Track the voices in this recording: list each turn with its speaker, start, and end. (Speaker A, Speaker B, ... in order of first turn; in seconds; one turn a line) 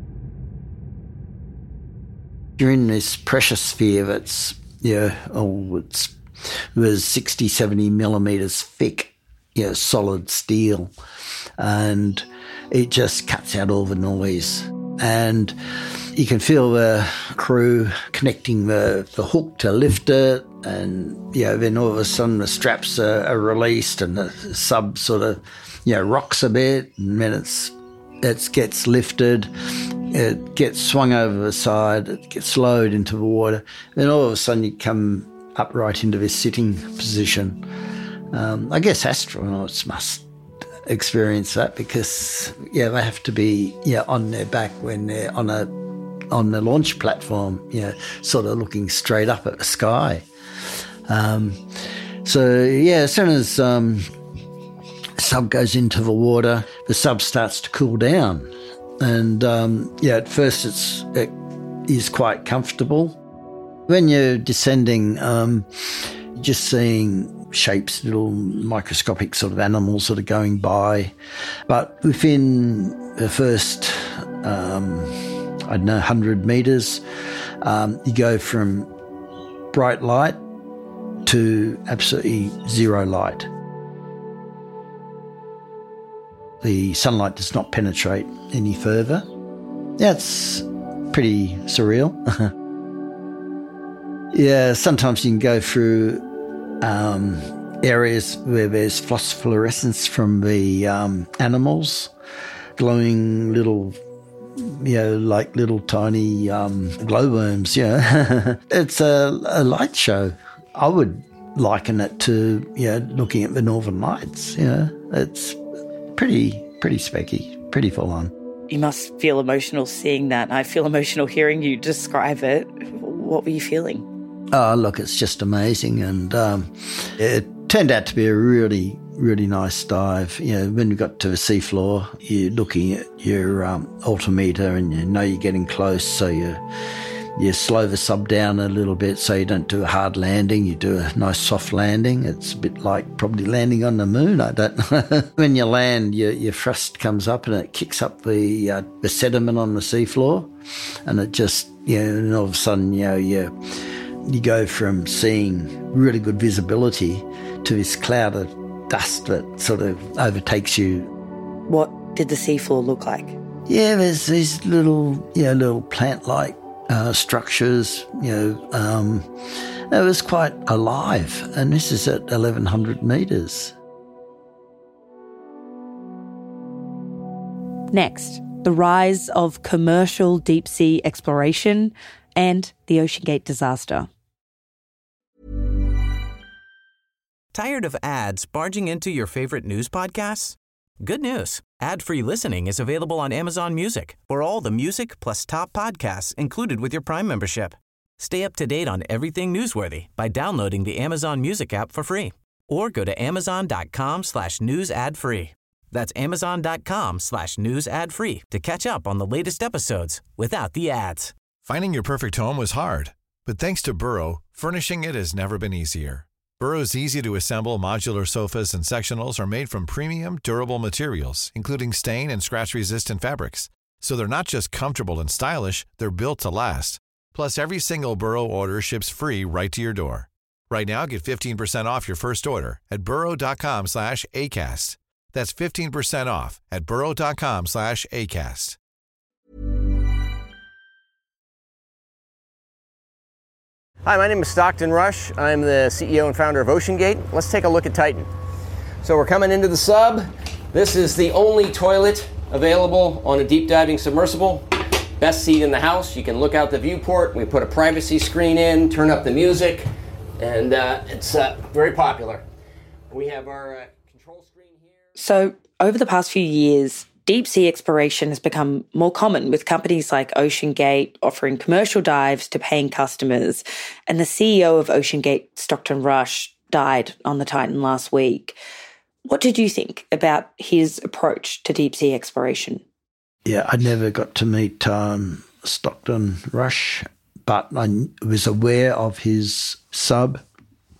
Speaker A: 2.6-6.1
Speaker A: 6.7-10.9
Speaker A: 11.6-15.6
Speaker A: 16.1-29.5
Speaker A: 30.1-37.6
Speaker A: 38.3-40.2
Speaker A: 40.9-45.7
Speaker A: 46.3-50.2
Speaker A: 51.1-51.6
Speaker A: 52.2-54.0
Speaker A: 55.2-61.3
Speaker A: 61.9-63.2
Speaker A: 63.9-71.1
Speaker A: 71.7-75.1
Speaker A: 75.7-77.0
Speaker A: 77.6-78.9
Speaker A: 79.7-80.4
Speaker A: 81.2-83.5
Speaker A: 86.6-89.3
Speaker A: 90.0-92.2
Speaker A: 94.3-96.2
Speaker A: 96.8-102.1
Speaker A: 102.8-104.0
Speaker A: 104.6-115.6
Speaker A: 116.2-118.3
Speaker B: 118.7-124.1
Speaker A: 124.5-136.6
Speaker A: 137.3-150.5
Speaker A: 151.0-153.5
Speaker A: 154.2-161.1
Speaker B: 161.7-163.4
Speaker A: 163.7-169.3
Speaker A: 169.9-173.7
Speaker B: 177.9-184.1
Speaker C: 187.5-211.3
Speaker D: 211.7-238.8
Speaker E: 244.0-248.3
Speaker E: 249.0-259.9
Speaker E: 260.4-262.4
Speaker E: 263.1-264.9
Speaker B: 265.2-278.6
Speaker B: 279.2-282.8
Speaker A: 283.4-290.4